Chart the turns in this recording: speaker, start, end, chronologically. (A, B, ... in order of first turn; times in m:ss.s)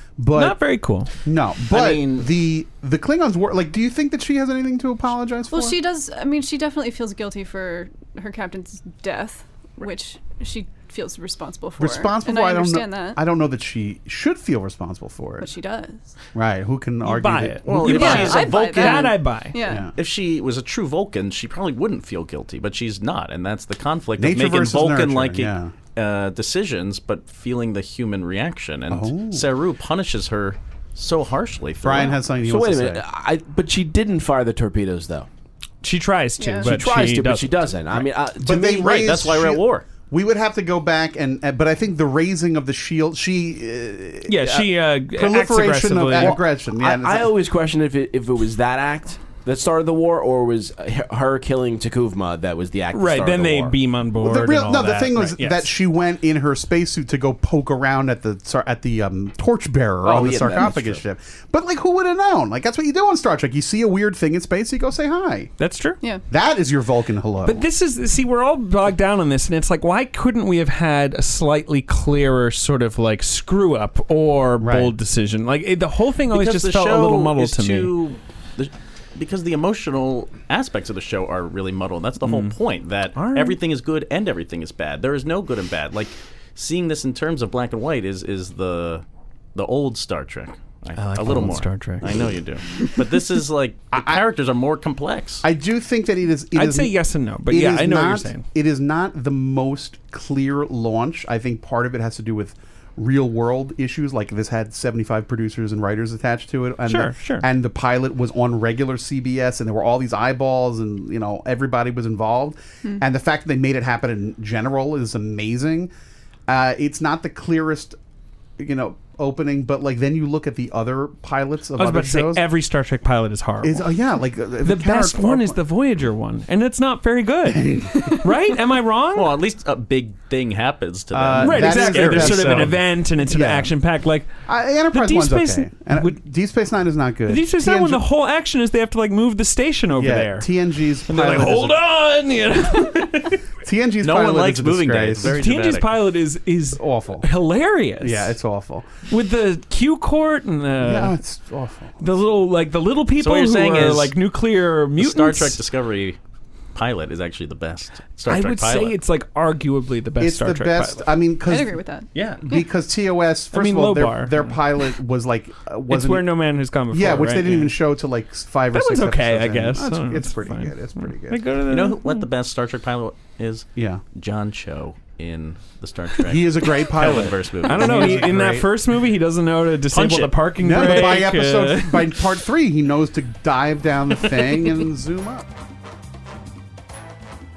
0:00.2-0:00.6 A
0:00.3-0:01.1 B
0:01.2-0:05.8 A
0:01.7-0:02.2 C
0:05.5-0:13.2 D
0:11.8-0:15.5 A
0:15.4-0:16.1 D
0:16.3-0:18.2 A
0:17.0-0:19.5 B
0:17.6-0:19.2 C
0:17.9-0:19.9 D
0:19.6-0:19.9 A
0:19.9-0:32.2 C
0:24.2-0:25.7 A
0:28.9-0:29.4 A
0:31.8-0:33.0 A
0:32.4-0:35.3 E
0:35.8-0:37.7 B
0:36.4-0:36.7 D
0:36.6-0:39.1 E
0:38.4-0:47.3 A
0:38.8-0:39.9 C
0:44.3-0:46.4 B
0:46.2-0:53.8 E
0:52.9-0:55.7 B
0:54.2-1:05.5 A
1:00.0-1:01.0 E
1:05.6-1:06.0 B
1:06.3-1:07.6 A
1:07.4-1:17.9 B
1:14.6-1:14.9 A
1:16.3-1:29.0 C
1:22.2-1:22.5 B
1:23.2-1:23.6 B
1:29.5-1:35.4 C
1:31.0-1:32.2 B
1:33.9-1:34.2 A
1:35.4-1:37.0 A
1:36.5-1:38.4 B
1:37.5-1:55.9 A
1:46.9-1:47.5 B
1:56.5-1:58.0 A
1:58.6-2:02.4 A
2:01.8-2:03.8 B
2:03.6-2:05.6 A
2:04.6-2:09.3 B
2:07.4-2:08.2 A
2:09.1-2:12.7 C
2:11.1-2:13.7 A
2:11.4-2:14.3 B
2:14.4-2:18.0 A
2:14.9-2:16.2 B
2:17.3-2:20.5 B
2:20.0-2:21.8 A
2:21.1-2:23.4 B
2:23.6-2:25.4 A
2:24.0-2:26.0 C
2:25.3-2:28.3 B
2:26.8-2:27.3 A
2:28.0-2:28.9 A
2:29.1-2:31.1 B
2:30.8-2:32.1 A
2:32.0-2:35.6 B
2:33.2-2:34.2 C
2:35.0-2:36.2 C
2:36.7-2:39.0 C
2:38.3-2:41.0 B
2:40.2-2:41.8 A
2:41.5-2:42.6 D
2:42.1-2:42.4 B
2:42.4-2:46.3 A
2:43.5-2:44.6 B
2:45.9-2:47.8 B
2:46.9-2:51.4 A
2:48.7-2:52.2 B
2:51.7-2:58.3 C
2:53.8-2:54.0 A
2:56.2-2:58.7 A
2:57.6-3:02.2 B
2:59.9-3:01.2 C
3:00.6-3:05.5 A